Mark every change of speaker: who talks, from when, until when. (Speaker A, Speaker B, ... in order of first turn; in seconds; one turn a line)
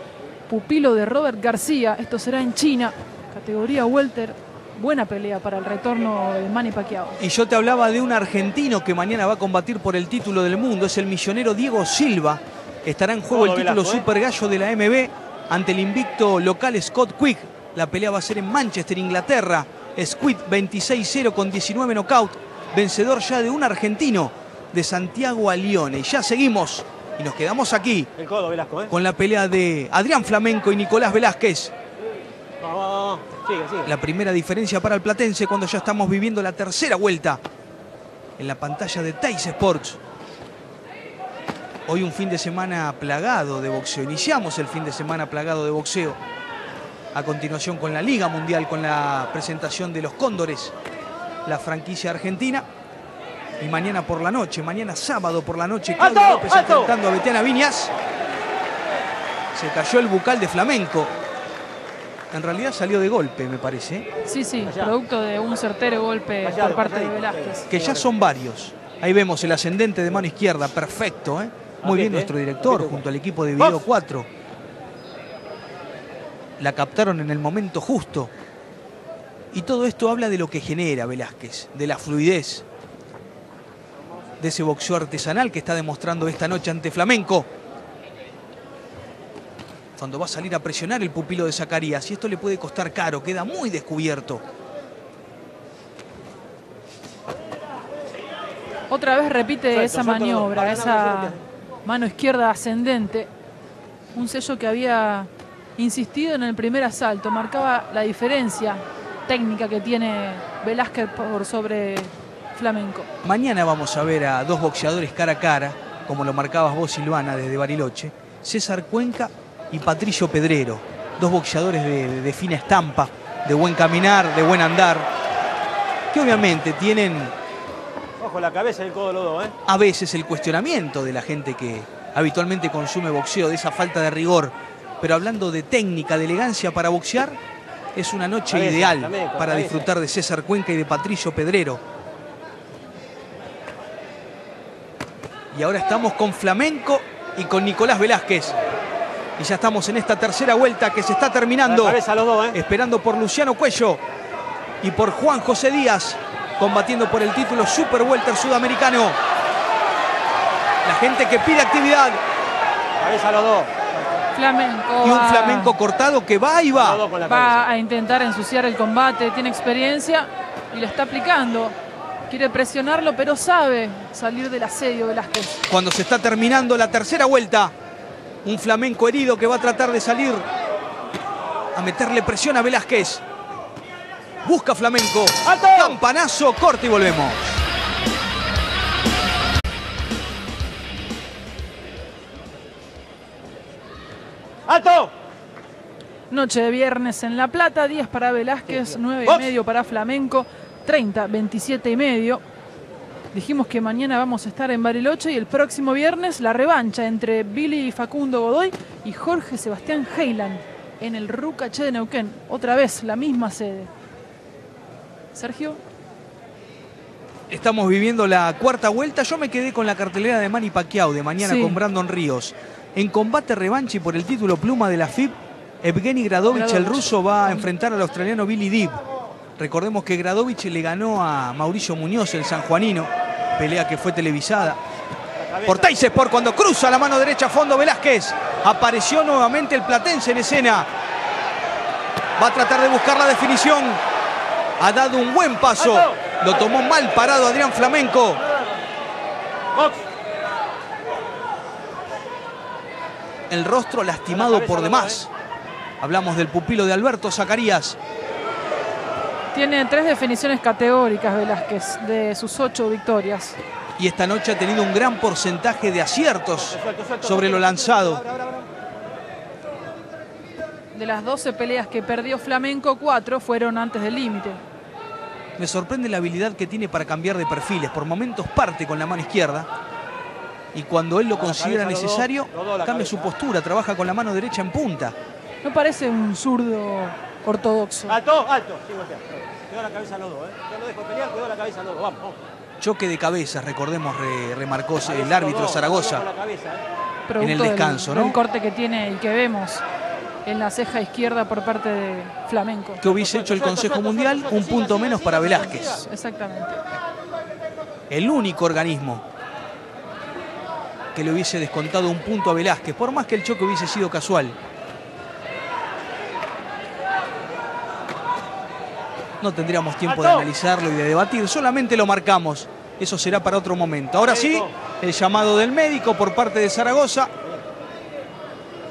Speaker A: 0.5-7.2
Speaker B: 7.2-28.1
Speaker C: 13.3-14.1
Speaker C: 28.2-28.9
Speaker B: 28.9-31.7
Speaker C: 32.6-33.9
Speaker B: 33.9-37.4
Speaker B: 38.4-40.0
Speaker B: 41.9-46.2
Speaker B: 47.1-50.7
Speaker B: 51.5-52.7
Speaker B: 53.6-57.9
Speaker C: 56.0-56.9
Speaker B: 59.5-61.1
Speaker B: 62.3-64.1
Speaker A: 64.2-67.7
Speaker C: 64.7-64.9
Speaker C: 66.4-68.1
Speaker B: 67.7-74.3
Speaker C: 71.8-73.0
Speaker C: 73.6-73.8
Speaker B: 76.6-78.3
Speaker B: 79.5-82.7
Speaker B: 84.4-87.5
Speaker B: 90.0-94.4
Speaker A: 98.9-103.3
Speaker C: 99.7-101.4
Speaker A: 104.1-113.1
Speaker B: 113.2-125.1
Speaker B: 126.1-127.3
Speaker C: 128.2-129.6
Speaker B: 129.7-137.4
Speaker B: 137.9-141.8
Speaker C: 138.5-139.9
Speaker B: 145.5-148.6
Speaker B: 149.4-152.0
Speaker C: 151.7-152.6
Speaker B: 152.5-154.0
Speaker B: 154.8-159.2
Speaker B: 160.8-162.2
Speaker C: 163.0-164.2
Speaker A: 164.3-165.8
Speaker B: 165.0-167.0
Speaker C: 166.7-167.6
Speaker A: 167.3-171.8
Speaker A: 172.3-175.6
Speaker B: 175.7-177.7
Speaker B: 178.4-180.5
Speaker B: 181.7-183.2
Speaker B: 184.4-187.6
Speaker C: 185.4-186.0
Speaker C: 194.7-195.1
Speaker A: 196.3-202.4
Speaker C: 198.7-199.5
Speaker A: 203.3-213.9
Speaker A: 215.3-215.8
Speaker B: 217.5-229.0
Speaker A: 221.4-221.8
Speaker A: 226.5-227.7
Speaker B: 229.6-234.8
Speaker C: 235.4-236.1
Speaker B: 235.7-240.9
Speaker B: 242.4-244.0
Speaker B: 244.8-248.4
Speaker C: 245.8-246.4
Speaker C: 249.7-250.0
Speaker B: 253.5-255.3
Speaker C: 254.3-255.2
Speaker B: 256.0-258.0
Speaker A: 259.5-263.6
Speaker B: 264.0-268.2
Speaker C: 266.6-268.7
Speaker A: 270.9-274.6
Speaker B: 275.6-279.7
Speaker B: 280.7-285.1
Speaker C: 281.3-283.3
Speaker A: 285.6-288.2
Speaker C: 288.1-292.4
Speaker B: 292.8-296.2
Speaker C: 295.0-296.8
Speaker A: 297.3-299.8
Speaker B: 297.4-298.4
Speaker A: 300.4-303.0
Speaker B: 303.0-306.0
Speaker C: 303.1-306.0
Speaker A: 305.7-306.8
Speaker B: 308.1-309.2
Speaker B: 311.1-314.6
Speaker B: 319.4-327.3
Speaker C: 320.1-320.5
Speaker C: 324.2-324.7